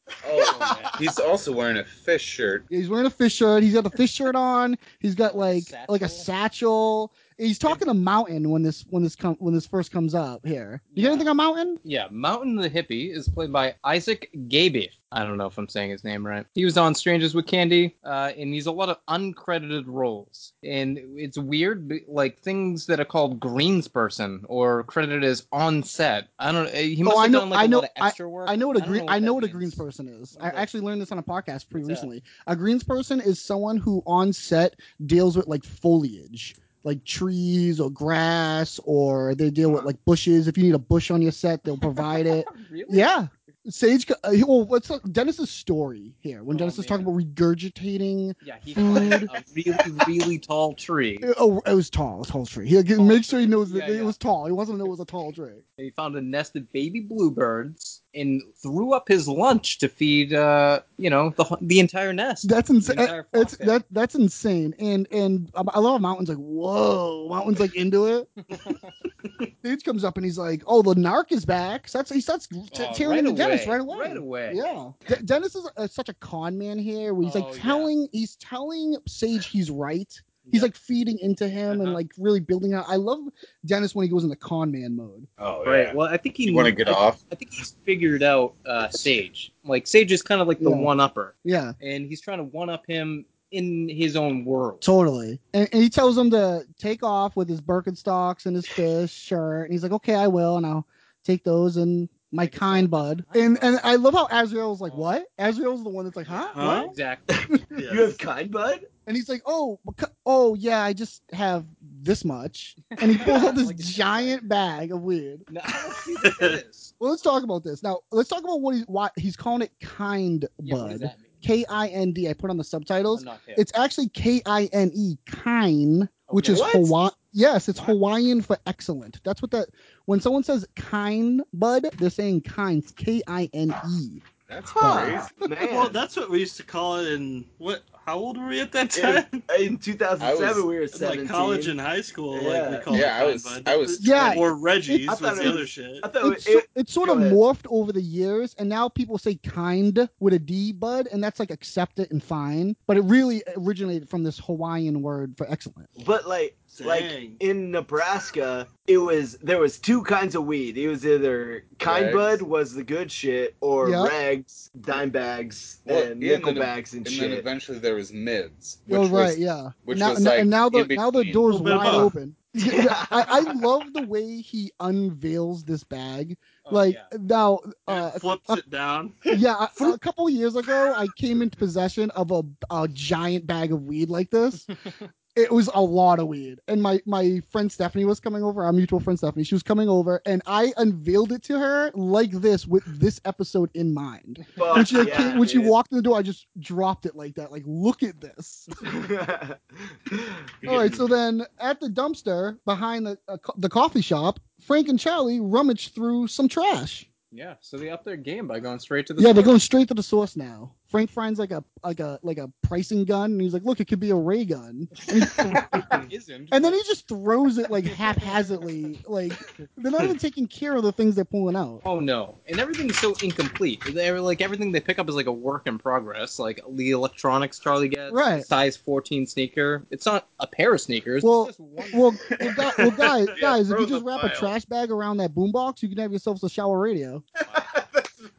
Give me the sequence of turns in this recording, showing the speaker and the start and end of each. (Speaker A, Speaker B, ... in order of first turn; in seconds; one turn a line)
Speaker A: 0.2-2.7
Speaker B: 0.4-0.9
Speaker C: 0.4-0.8
Speaker D: 2.7-11.8
Speaker B: 5.2-6.3
Speaker B: 10.9-11.3
Speaker B: 11.8-29.8
Speaker D: 27.0-50.1
Speaker B: 30.3-30.7
Speaker B: 31.7-32.1
Speaker B: 42.0-43.1
Speaker B: 46.5-47.1
Speaker B: 48.4-51.3
Speaker D: 51.2-55.6
Speaker B: 52.9-54.1
Speaker B: 55.8-63.8
Speaker D: 62.4-68.3
Speaker B: 68.5-68.9
Speaker D: 69.6-85.3
Speaker B: 72.7-74.7
Speaker B: 77.2-77.9
Speaker B: 80.4-80.7
Speaker B: 81.7-82.0
Speaker A: 85.4-87.2
Speaker B: 85.6-94.8
Speaker D: 90.6-90.9
Speaker D: 91.4-91.8
Speaker D: 94.8-106.9
Speaker B: 102.4-103.9
Speaker B: 104.8-105.1
Speaker B: 106.2-107.3
Speaker E: 106.5-106.9
Speaker C: 107.3-108.9
Speaker E: 107.7-108.2
Speaker D: 109.1-115.5
Speaker B: 112.9-114.4
Speaker B: 115.5-116.9
Speaker E: 116.2-116.6
Speaker D: 117.0-134.2
Speaker B: 120.6-121.4
Speaker B: 123.1-123.7
Speaker B: 126.3-126.7
Speaker C: 126.4-126.9
Speaker A: 134.5-135.3
Speaker C: 134.7-136.0
Speaker D: 134.8-135.2
Speaker E: 135.6-139.4
Speaker C: 138.9-141.8
Speaker A: 140.2-140.7
Speaker E: 140.9-146.1
Speaker C: 142.3-143.1
Speaker A: 142.9-144.5
Speaker D: 144.0-145.0
Speaker C: 145.0-147.4
Speaker D: 146.2-155.9
Speaker C: 156.0-167.5
Speaker E: 156.7-157.4
Speaker A: 161.8-162.4
Speaker D: 163.8-164.1
Speaker A: 165.9-172.0
Speaker D: 168.9-178.6
Speaker E: 171.5-172.1
Speaker C: 172.6-173.6
Speaker B: 176.6-177.1
Speaker E: 177.9-179.9
Speaker D: 179.3-184.7
Speaker D: 185.3-198.7
Speaker C: 194.6-195.7
Speaker C: 198.8-200.5
Speaker D: 200.6-207.1
Speaker B: 207.3-209.6
Speaker D: 209.2-216.0
Speaker B: 215.7-216.8
Speaker D: 216.5-221.8
Speaker B: 217.9-218.3
Speaker B: 221.8-232.2
Speaker D: 228.1-228.5
Speaker D: 231.2-237.2
Speaker A: 232.3-234.5
Speaker A: 237.5-238.2